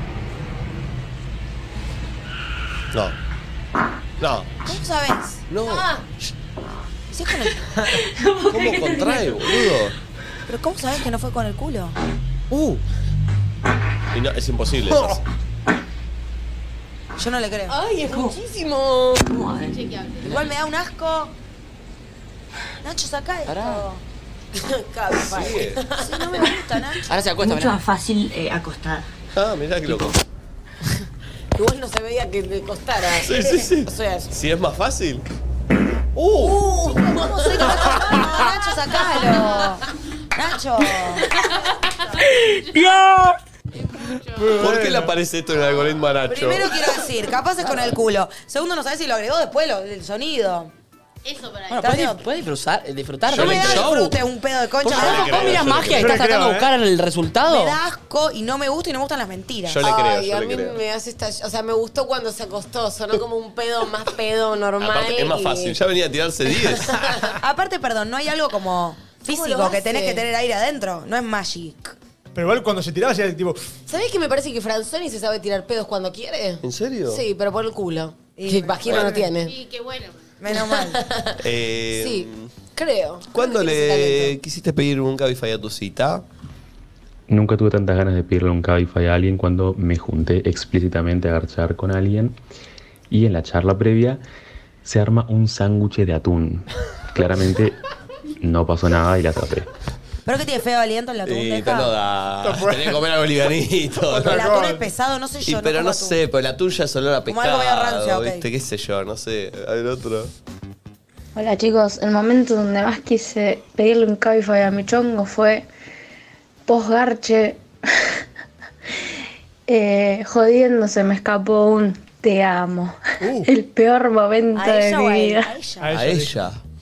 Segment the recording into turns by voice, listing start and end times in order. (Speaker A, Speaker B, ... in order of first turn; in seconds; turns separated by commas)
Speaker A: 4.2-4.5, Speaker B: 4.6-5.4, Speaker A: 5.5-5.9, Speaker C: 5.6-6.0, Speaker B: 7.1-7.7, Speaker D: 7.9-9.8, Speaker A: 8.5-9.9, Speaker B: 10.5-11.9, Speaker A: 12.5-12.8, Speaker A: 14.1-15.2, Speaker E: 14.9-15.2, Speaker B: 17.2-17.8, Speaker C: 17.7-19.3, Speaker D: 18.1-18.4, Speaker D: 19.2-19.8, Speaker F: 19.7-20.4, Speaker B: 20.2-21.3, Speaker B: 22.8-24.0, Speaker G: 23.5-23.8, Speaker C: 24.5-26.5, Speaker A: 25.2-25.8, Speaker B: 26.0-27.1, Speaker G: 27.1-27.8, Speaker D: 27.4-29.1, Speaker A: 29.3-30.2, Speaker C: 31.5-34.3, Speaker A: 33.1-35.2, Speaker A: 36.1-36.6, Speaker C: 36.4-38.5, Speaker B: 37.1-41.3, Speaker F: 39.4-39.6, Speaker F: 41.3-43.0, Speaker F: 43.7-44.7, Speaker E: 44.4-45.1, Speaker A: 44.5-46.7, Speaker B: 46.3-50.7, Speaker F: 51.2-52.0, Speaker B: 51.7-52.2, Speaker G: 51.8-54.2, Speaker A: 53.3-54.0, Speaker B: 53.3-55.6, Speaker G: 54.8-57.8, Speaker A: 54.9-56.2, Speaker E: 55.9-56.7, Speaker B: 57.5-59.8, Speaker A: 59.7-60.8, Speaker C: 59.8-65.8, Speaker A: 64.8-67.0, Speaker C: 66.5-67.3, Speaker B: 67.4-72.0, Speaker C: 69.3-70.2, Speaker E: 72.3-73.7, Speaker C: 73.9-79.5, Speaker A: 76.6-77.2, Speaker B: 78.4-79.2, Speaker A: 78.8-79.2, Speaker F: 79.4-80.2, Speaker B: 80.4-81.0, Speaker C: 80.5-81.4, Speaker A: 81.4-82.5, Speaker C: 81.9-84.4, Speaker A: 83.3-86.2, Speaker H: 87.3-92.4, Speaker H: 93.1-94.2, Speaker H: 94.8-97.8, Speaker H: 98.4-99.7, Speaker B: 100.2-101.9, Speaker A: 101.2-104.5, Speaker E: 102.4-103.0, Speaker E: 104.0-104.9, Speaker B: 104.2-106.2, Speaker A: 105.4-110.3, Speaker B: 107.3-108.5, Speaker I: 111.3-115.7, Speaker I: 116.7-117.6, Speaker I: 119.7-125.5, Speaker E: 123.2-123.5, Speaker B: 124.5-126.0, Speaker E: 125.8-126.4, Speaker A: 125.9-126.6